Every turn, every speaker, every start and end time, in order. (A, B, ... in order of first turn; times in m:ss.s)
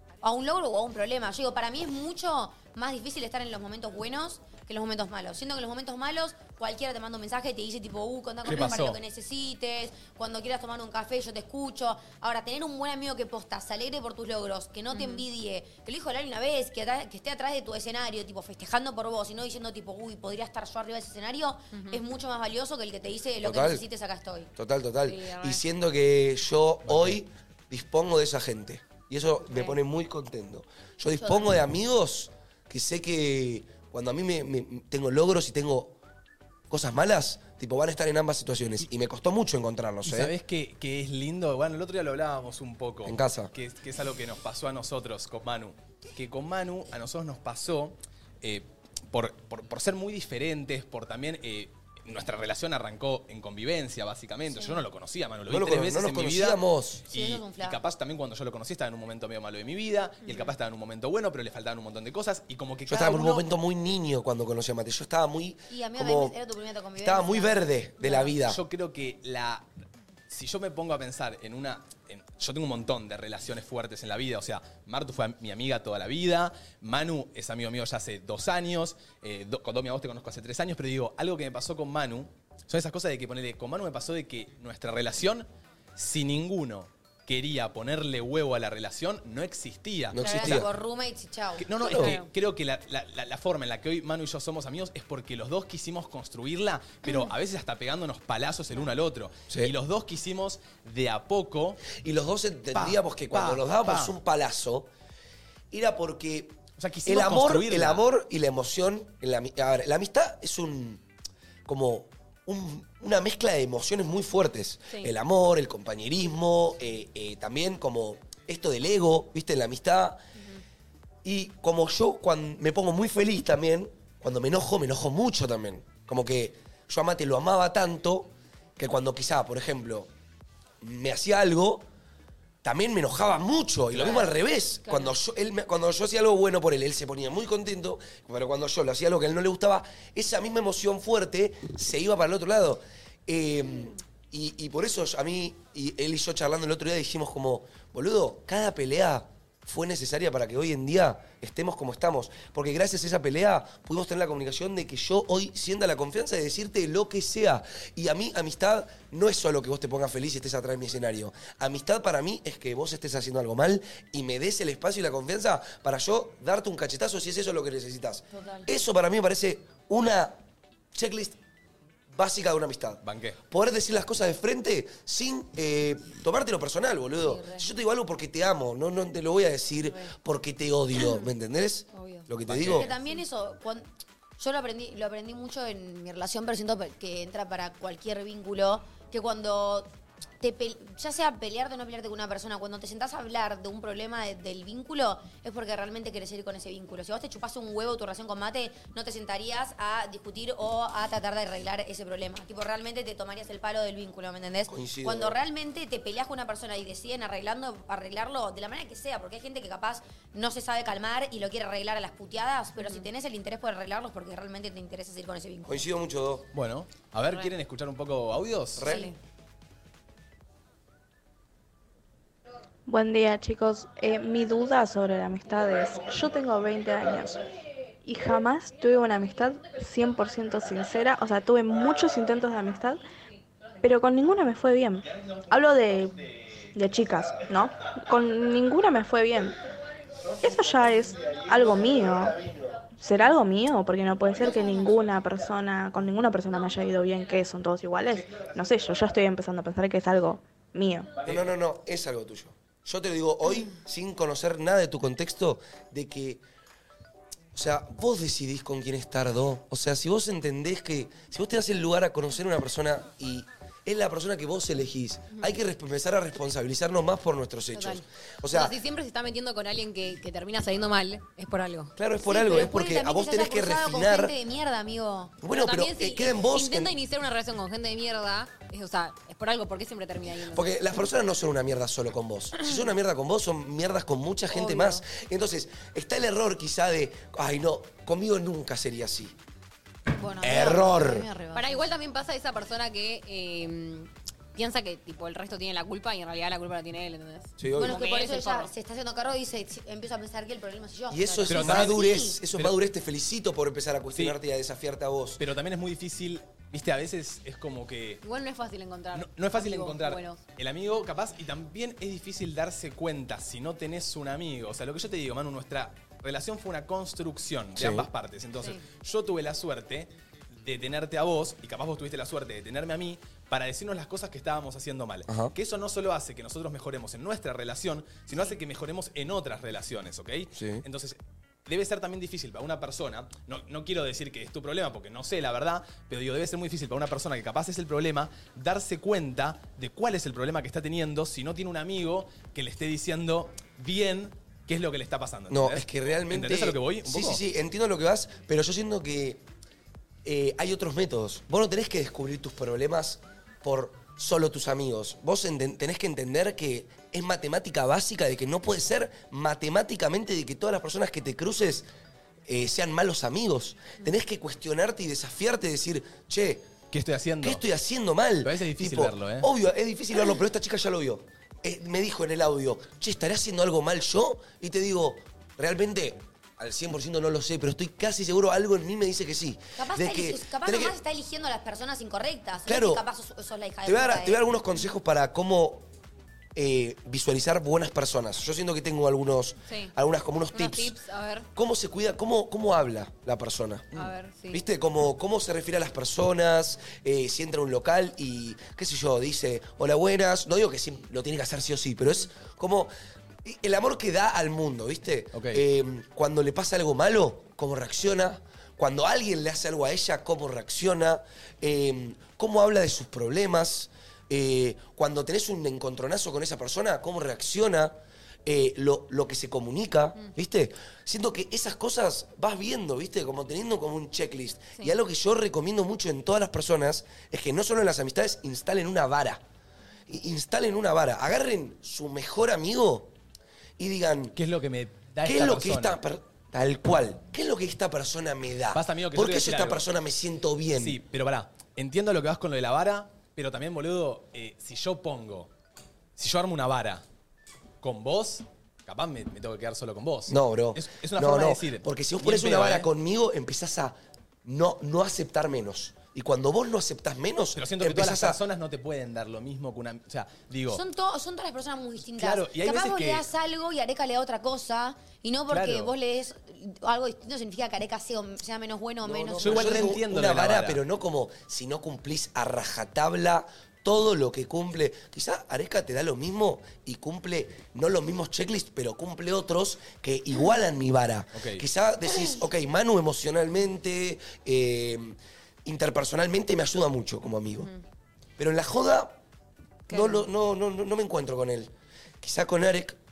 0:00.2-0:24.5 A
0:08.4-0:09.0 B
0:14.9-0:15.2 C
0:21.7-0:22.0 C
0:23.4-0:23.8 D
0:24.6-0:36.0 D
0:25.0-0:25.6 C
0:26.9-0:27.2 B
0:31.2-0:31.6 A
0:36.7-0:40.3 D
0:40.0-1:03.4 B
0:43.0-0:43.5 D
0:55.5-0:57.0 D
0:57.1-0:57.8 A
1:02.9-1:06.3 D
1:03.0-1:03.4 A
1:05.7-1:08.2 A
1:07.0-1:08.6 D
1:08.4-1:09.6 B
1:10.3-1:30.6 B
1:30.1-1:30.7 D
1:30.2-1:32.2 A
1:31.6-1:41.8 B
1:31.8-1:32.2 D
1:42.0-1:44.9 D
1:42.7-1:44.1 B
1:45.7-1:51.0 D
1:46.8-1:48.0 B
1:51.6-2:00.2 D
2:01.2-2:10.1 D
2:10.8-2:11.8 D
2:12.6-2:50.4 D
2:13.9-2:14.3 B
2:14.9-2:15.1 C
2:48.3-2:48.6 A
2:50.9-2:51.4 D
2:52.1-3:02.9 D
2:53.0-2:53.4 B
3:01.9-3:02.3 C
3:02.5-3:02.9 B
3:02.7-3:03.9 A
3:04.4-3:09.9 A
3:10.4-3:35.9 A
3:24.7-3:25.4 D
3:32.8-3:33.0 C
3:35.6-3:36.5 D
3:36.5-3:39.0 B
3:38.8-3:39.1 D
3:38.8-3:39.1 C
3:38.9-3:39.1 A
3:42.9-3:47.4 E
3:48.0-3:53.0 E
3:53.8-3:56.2 E
3:56.7-3:59.6 E
4:00.4-4:02.4 E
4:03.0-4:11.1 E
4:11.2-4:16.4 D
4:17.5-4:28.7 D
4:27.7-4:31.9 C
4:32.0-4:34.3 D
4:32.3-4:35.4 A
4:35.4-4:36.9 D
4:35.5-4:40.7 C
4:40.5-4:49.3 D
4:44.5-4:45.0 A
4:50.1-4:51.9 A
4:50.4-4:51.3 D
4:50.5-4:50.8 C
4:51.5-4:58.7 C
4:57.6-4:58.0 D
4:57.8-5:02.4 A
5:01.1-5:05.4 D
5:01.5-5:02.7 B
5:05.4-5:08.2 B
5:08.2-5:10.4 C
5:09.1-5:20.1 B
5:17.8-5:18.1 D
5:18.6-5:18.8 C
5:20.6-5:47.4 B
5:25.3-5:25.5 D
5:30.5-5:30.8 D
5:45.5-5:49.4 D
5:50.2-6:01.8 D
6:02.5-6:06.6 D
6:06.9-6:07.6 B
6:07.4-6:20.9 D
6:08.4-6:09.5 B
6:19.8-6:24.4 A
6:22.6-6:23.0 D
6:23.8-6:25.8 D
6:26.6-6:30.9 D
6:29.7-6:29.9 C
6:30.5-6:31.5 C
6:31.6-6:42.9 D
6:33.9-6:34.6 C
6:43.4-7:09.4 D
6:45.3-6:45.6 B
7:10.1-7:13.1 D
7:13.8-7:14.3 D
7:14.3-7:16.0 B
7:15.2-7:21.0 D
7:18.7-7:19.8 B
7:20.8-7:25.5 B
7:26.2-7:27.0 B
7:27.8-7:32.9 B
7:30.3-7:38.4 D
7:37.6-7:40.8 B
7:40.7-7:50.0 A
7:42.0-7:43.3 B
7:45.5-7:45.9 B
7:49.0-8:07.7 D
7:49.4-7:50.8 B
8:01.3-8:01.6 B
8:08.4-8:09.2 D
8:09.9-8:10.2 C
8:09.9-8:13.0 D